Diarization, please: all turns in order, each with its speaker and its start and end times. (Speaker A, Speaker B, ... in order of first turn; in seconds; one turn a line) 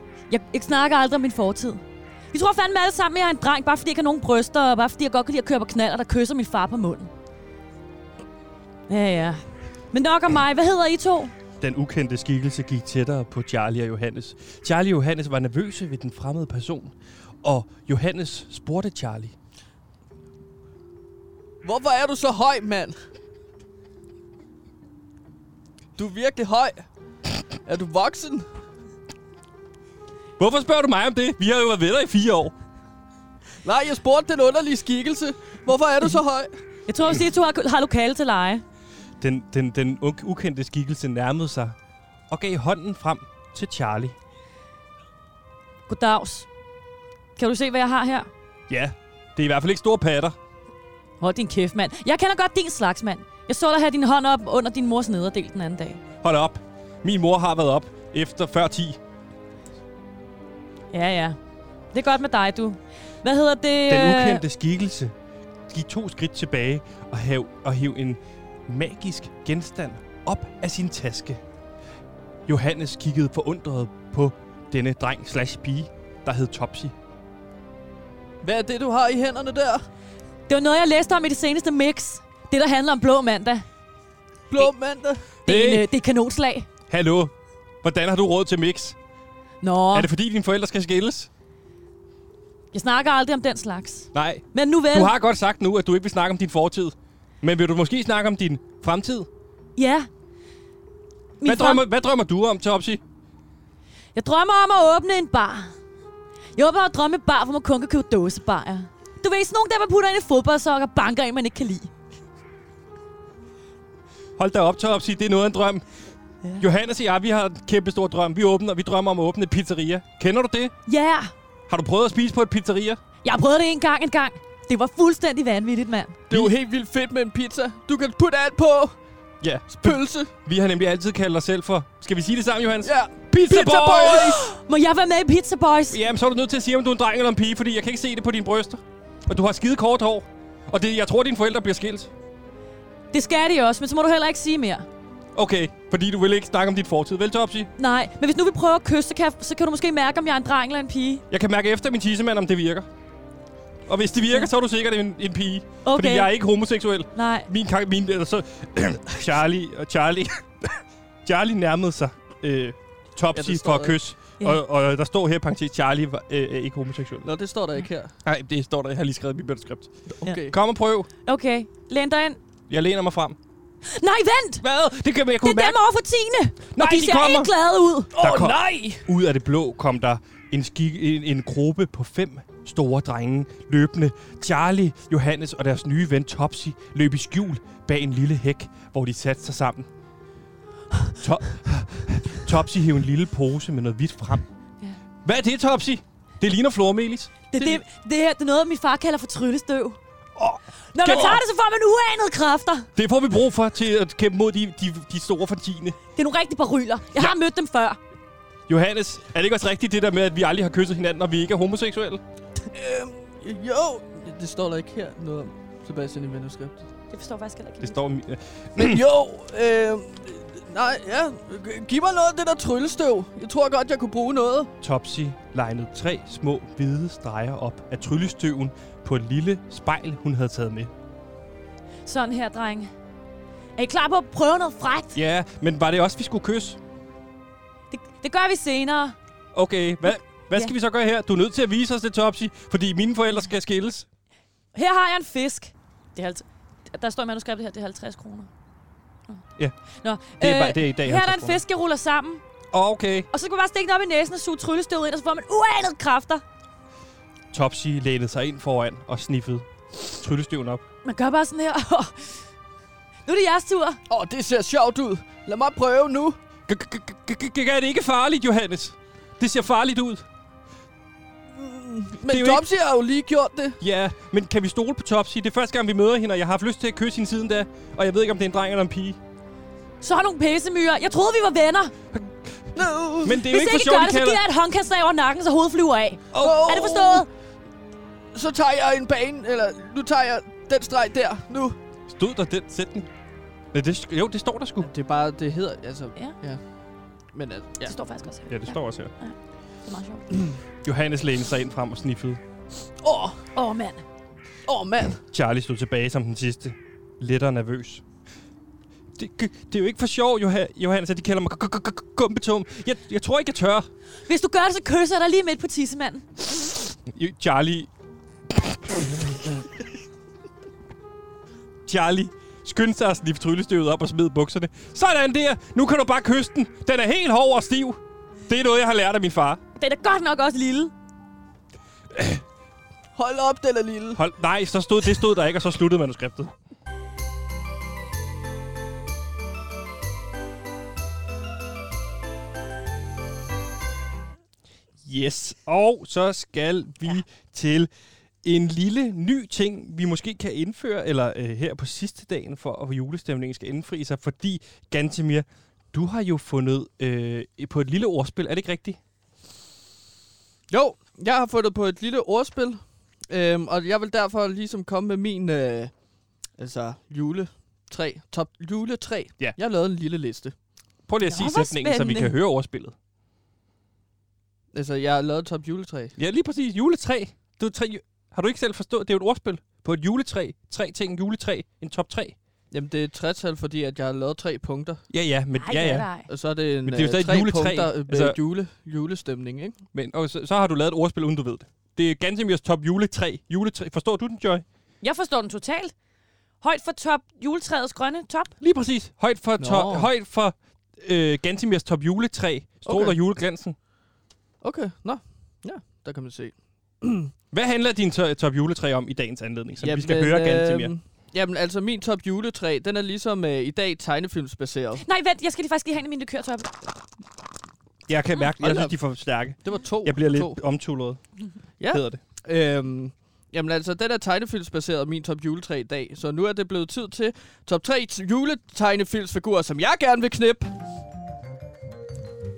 Speaker A: 0.3-7.1
Speaker A: 8.9-11.3
Speaker B: 11.6-19.3
Speaker C: 21.6-22.9
Speaker C: 26.0-26.8
Speaker C: 27.6-28.4
Speaker B: 30.4-32.5
Speaker C: 33.6-36.5
Speaker A: 36.9-38.6
Speaker B: 39.2-41.8
Speaker B: 42.3-44.1
Speaker A: 45.9-46.5
Speaker A: 47.4-48.3
Speaker B: 48.7-50.4
Speaker A: 51.2-56.0
Speaker B: 56.2-59.0
Speaker A: 60.9-61.4
Speaker A: 61.9-64.4
Speaker B: 63.9-65.1
Speaker B: 65.7-71.4
Speaker B: 72.5-76.9
Speaker C: 78.4-79.8
Speaker A: 80.5-83.7
Speaker C: 84.5-85.3
Speaker A: 85.5-86.7
Speaker B: 85.5-85.9
Speaker B: 86.9-89.0
Speaker A: 89.6-90.1
Speaker B: 89.9-91.3
Speaker A: 92.7-95.1
Speaker B: 94.1-99.3
Speaker A: 99.8-100.1
Speaker A: 101.4-101.8
Speaker B: 101.4-103.0
Speaker A: 104.1-105.7
Speaker A: 106.5-111.9
Speaker B: 114.4-115.8
Speaker B: 116.6-120.7
Speaker A: 120.9-121.3
Speaker B: 121.7-123.0
Speaker A: 123.2-126.2
Speaker C: 126.3-128.9
Speaker B: 129.4-134.4
Speaker C: 129.7-130.3
Speaker C: 132.8-134.4
Speaker A: 133.5-136.0
Speaker B: 135.9-142.1
Speaker A: 143.1-144.9
Speaker B: 145.3-147.7
Speaker A: 147.8-151.2
Speaker B: 151.3-152.9
Speaker B: 153.9-167.3
Speaker A: 155.8-156.3
Speaker A: 157.1-157.5
Speaker C: 163.3-164.0
Speaker C: 167.2-168.1
Speaker B: 168.2-171.1
Speaker C: 170.2-170.6
Speaker A: 171.2-172.4
Speaker B: 172.7-173.4
Speaker A: 173.8-174.6
Speaker B: 174.6-175.8
Speaker A: 175.4-178.1
Speaker B: 176.7-177.5
Speaker C: 178.1-179.0
Speaker B: 178.2-189.9
Speaker B: 191.2-194.4
Speaker B: 195.2-197.8
Speaker A: 197.5-200.0
Speaker B: 200.3-201.4
Speaker A: 200.9-202.9
Speaker B: 202.9-206.0
Speaker A: 206.1-208.0
Speaker B: 208.7-212.2
Speaker C: 212.7-216.8
Speaker A: 217.1-218.0
Speaker B: 217.8-219.0
Speaker C: 218.8-224.7
Speaker B: 224.8-230.9
Speaker A: 232.0-232.9
Speaker A: 233.8-235.2
Speaker B: 235.1-236.8
Speaker A: 237.9-239.2
Speaker B: 239.5-244.1
Speaker A: 244.7-248.5
Speaker A: 250.0-252.4
Speaker B: 250.4-251.6
Speaker B: 252.7-253.3
Speaker A: 253.3-256.4
Speaker B: 257.5-260.8
Speaker A: 261.0-262.4
Speaker A: 263.2-264.0
Speaker C: 264.1-266.4
Speaker B: 266.7-270.2
Speaker C: 271.5-273.8
Speaker B: 272.3-272.6
Speaker B: 273.8-279.2
Speaker A: 280.0-281.9
Speaker B: 282.1-284.4
Speaker C: 282.8-283.4
Speaker A: 283.4-287.3
Speaker B: 286.3-286.7
Speaker C: 286.4-287.2
Speaker C: 288.3-291.8
Speaker B: 292.1-293.1
Speaker B: 293.7-294.9
Speaker C: 294.8-296.6
Speaker C: 297.3-297.9
Speaker A: 297.8-300.3
Speaker B: 298.5-299.1
Speaker C: 300.3-300.6
Speaker B: 300.8-302.4
Speaker C: 303.0-303.4
Speaker A: 303.5-304.0
Speaker C: 304.6-305.2
Speaker B: 305.3-308.0
Speaker B: 309.1-313.9
Speaker A: 314.2-316.4
Speaker B: 317.1-317.9
Speaker B: 318.5-319.7
Speaker B: 321.9-329.6
Speaker A: 329.8-330.9
Speaker B: 332.1-332.4
Speaker C: 333.1-334.2
Speaker B: 334.1-336.5
Speaker B: 345.0-347.9
Speaker B: 348.4-359.0
Speaker C: 360.7-365.9
Speaker C: 366.6-370.5
Speaker B: 371.1-372.9
Speaker A: 371.3-372.4
Speaker C: 374.7-376.1
Speaker B: 376.2-382.4
Speaker C: 382.7-385.0
Speaker B: 385.1-386.1
Speaker A: 385.5-386.3
Speaker C: 386.3-389.8
Speaker B: 386.8-388.4
Speaker B: 389.9-394.6
Speaker A: 395.0-395.9
Speaker A: 396.6-398.5
Speaker B: 398.6-403.8
Speaker C: 399.6-400.1
Speaker C: 402.8-403.2
Speaker C: 404.6-407.3
Speaker B: 407.5-410.9
Speaker C: 409.8-415.0
Speaker A: 415.0-416.8
Speaker B: 418.1-421.2
Speaker C: 418.6-418.9
Speaker C: 419.6-420.6
Speaker C: 421.8-430.7
Speaker B: 421.9-422.2